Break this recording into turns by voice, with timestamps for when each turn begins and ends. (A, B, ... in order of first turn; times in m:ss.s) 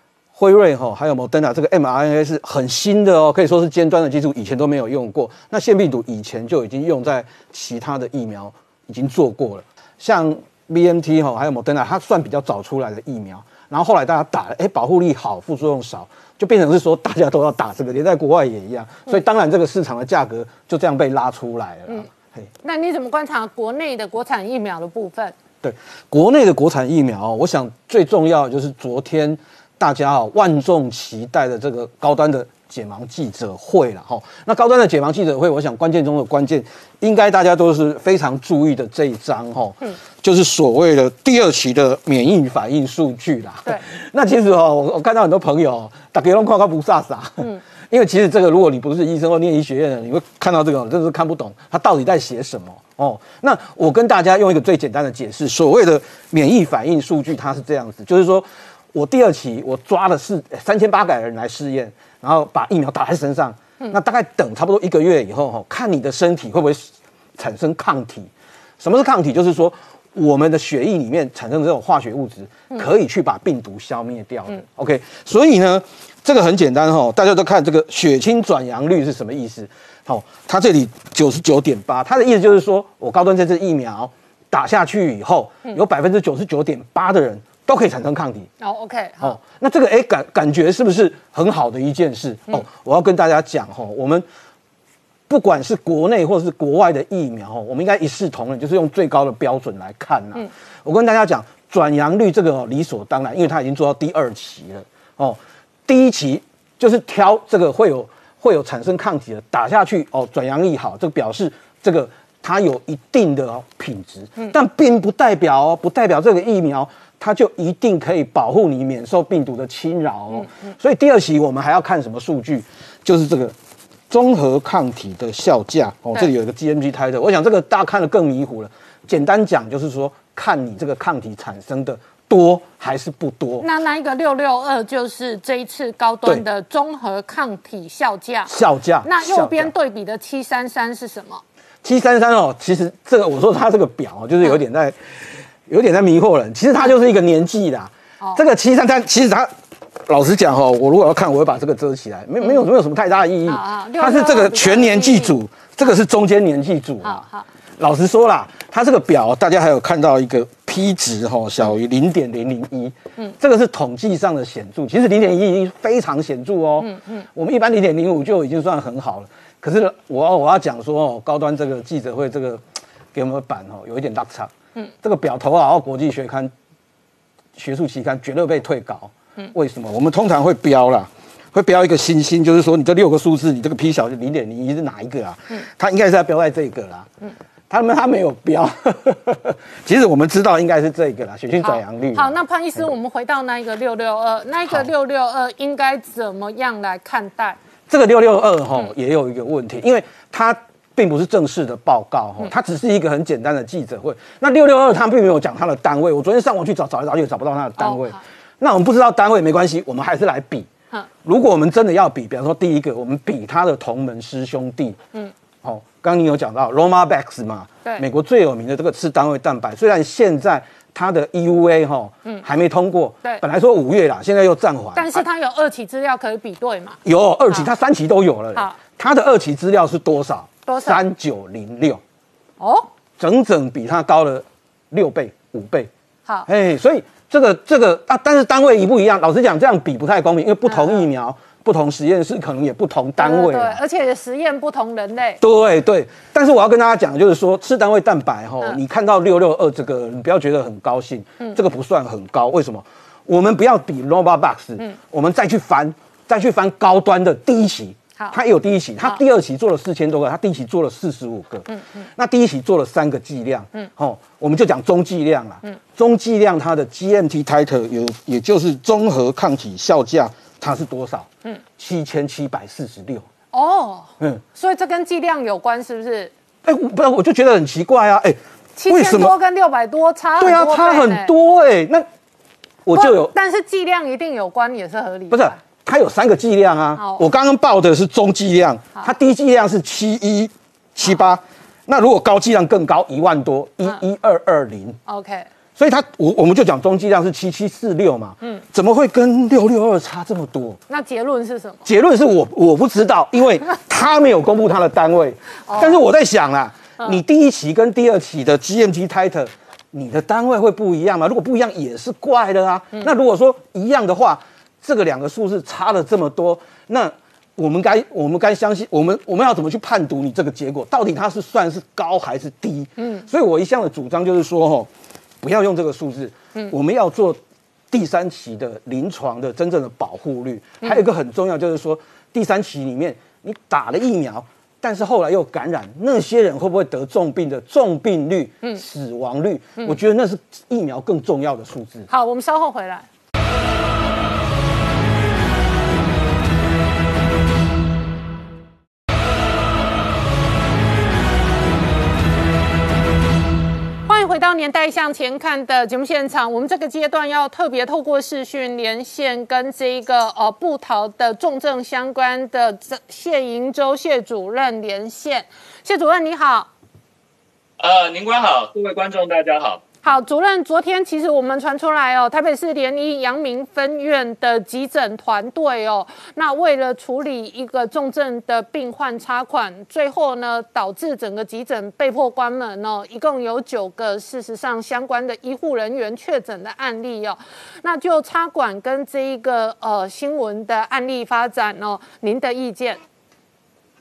0:00.3-0:22.5 A
0:22.6-0:25.3 B
0:25.6-1:28.5 A
1:28.6-1:29.4 B
1:29.2-1:34.2 A
1:35.3-2:03.6 A
2:00.3-2:00.7 B
2:04.1-2:13.6 A
2:13.6-2:18.5 B
2:18.5-2:19.7 A
2:19.0-2:21.4 B
2:21.8-2:29.5 A
2:30.0-2:37.3 A
2:33.4-2:35.9 B
2:37.0-2:37.5 B
2:37.8-2:54.5 A
2:46.8-2:47.2 B
2:55.0-2:56.5 A
2:57.6-3:07.1 A
3:07.7-3:12.9 A
3:11.6-3:17.6 B
3:17.9-3:30.7 A
3:27.8-3:28.2 B
3:31.2-3:35.0 A
3:35.6-3:45.2 A
3:44.9-3:47.0 B
3:47.0-3:52.0 A
3:50.7-3:51.0 B
3:52.6-3:52.9 B
3:53.2-3:55.9 A
3:56.5-4:03.8 A
4:00.6-4:01.0 B
4:03.2-4:05.4 B
4:05.4-4:33.3 A
4:21.7-4:22.0 B
4:33.5-4:36.3 B
4:36.6-4:39.3 A
4:38.8-4:41.3 B
4:40.4-4:42.1 A
4:42.8-4:43.3 A
4:42.9-4:45.6 B
4:45.3-4:55.0 A
4:47.0-4:47.2 B
4:55.0-4:55.5 B
4:55.8-5:00.8 A
5:00.9-5:01.8 B
5:01.8-5:24.9 A
5:05.6-5:06.0 B
5:23.0-5:23.2 B
5:25.4-5:27.4 A
5:27.9-5:42.1 A
5:42.1-5:43.0 B
5:54.1-6:06.7 B
6:07.8-6:09.8 C
6:10.0-6:33.0 B